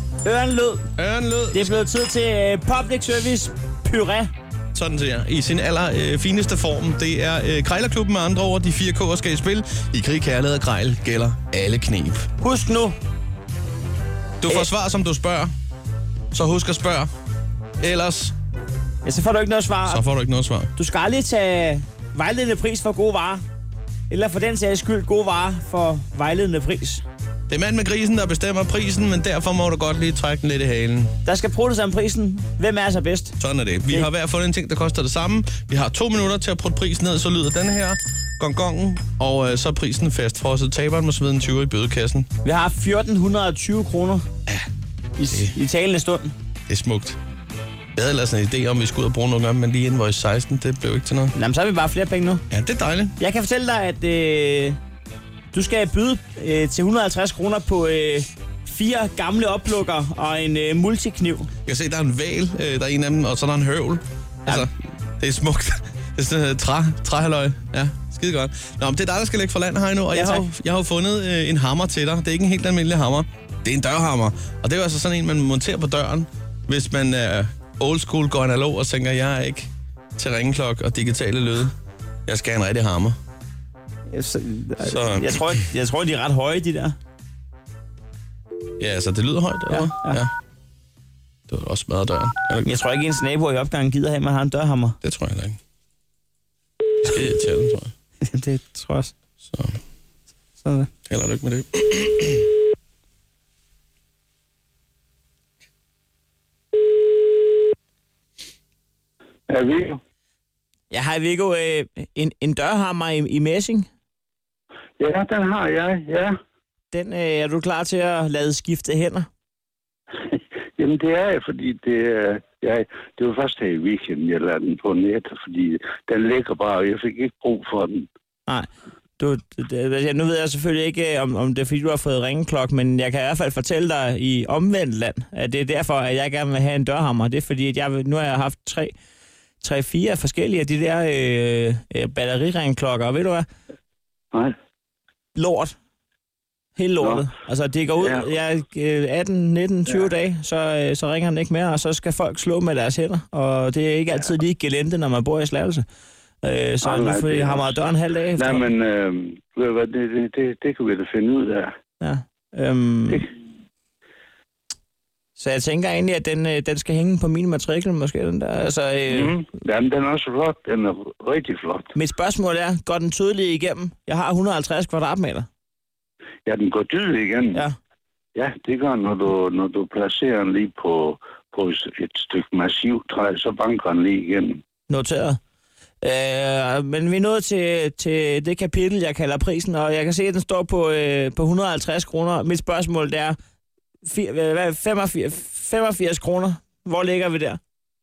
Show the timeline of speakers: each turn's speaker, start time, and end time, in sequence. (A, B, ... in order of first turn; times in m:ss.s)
0:00.2-0:00.9 A
0:01.0-0:01.8 B
0:01.5-0:04.3 A
0:04.7-0:12.3 B
0:12.4-0:12.9 A
0:14.4-0:15.5 B
0:16.3-0:17.1 B
0:17.8-0:18.3 B
0:19.0-0:20.0 A
0:19.9-0:20.7 B
0:20.8-0:23.4 A
0:24.1-0:27.0 A
0:27.5-0:31.1 B
0:31.2-0:33.4 A
0:33.4-0:42.3 B
0:42.4-0:44.2 A
0:45.2-0:46.3 A
0:45.2-0:45.5 B
0:46.7-0:47.2 B
0:48.0-0:51.3 B
0:51.3-0:52.4 A
0:52.5-0:53.2 B
0:53.2-0:54.8 A
0:55.5-1:01.5 A
1:01.6-1:21.7 B
1:10.1-1:10.4 A
1:22.2-1:23.2 B
1:24.1-1:27.0 A
1:24.8-1:25.6 B
1:28.8-1:30.3 B
1:29.7-1:30.2 A
1:31.5-1:32.7 B
1:32.6-1:35.0 A
1:35.0-1:35.6 B
1:37.0-1:37.9 B
1:38.2-1:39.1 A
1:40.6-1:40.9 A
1:41.1-1:42.5 B
1:49.5-1:50.0 C
1:50.9-1:53.9 A
1:55.0-1:56.3 C
1:56.9-1:59.3 A
2:00.3-2:08.1 C
2:09.2-2:18.9 A
2:19.6-2:23.4 A
2:25.3-2:25.7 A
2:26.8-2:35.8 A
2:27.0-2:27.2 C
2:28.0-2:28.2 C
2:36.4-2:38.6 A
2:36.8-2:37.8 C
2:38.4-2:41.7 C
2:42.0-2:43.2 A
2:45.4-2:49.3 A
2:49.1-2:51.9 C
2:51.9-2:55.5 A
2:56.4-2:57.6 C
2:58.4-3:04.6 C
3:04.9-3:05.4 A
3:06.0-3:13.4 A
3:14.0-3:17.6 A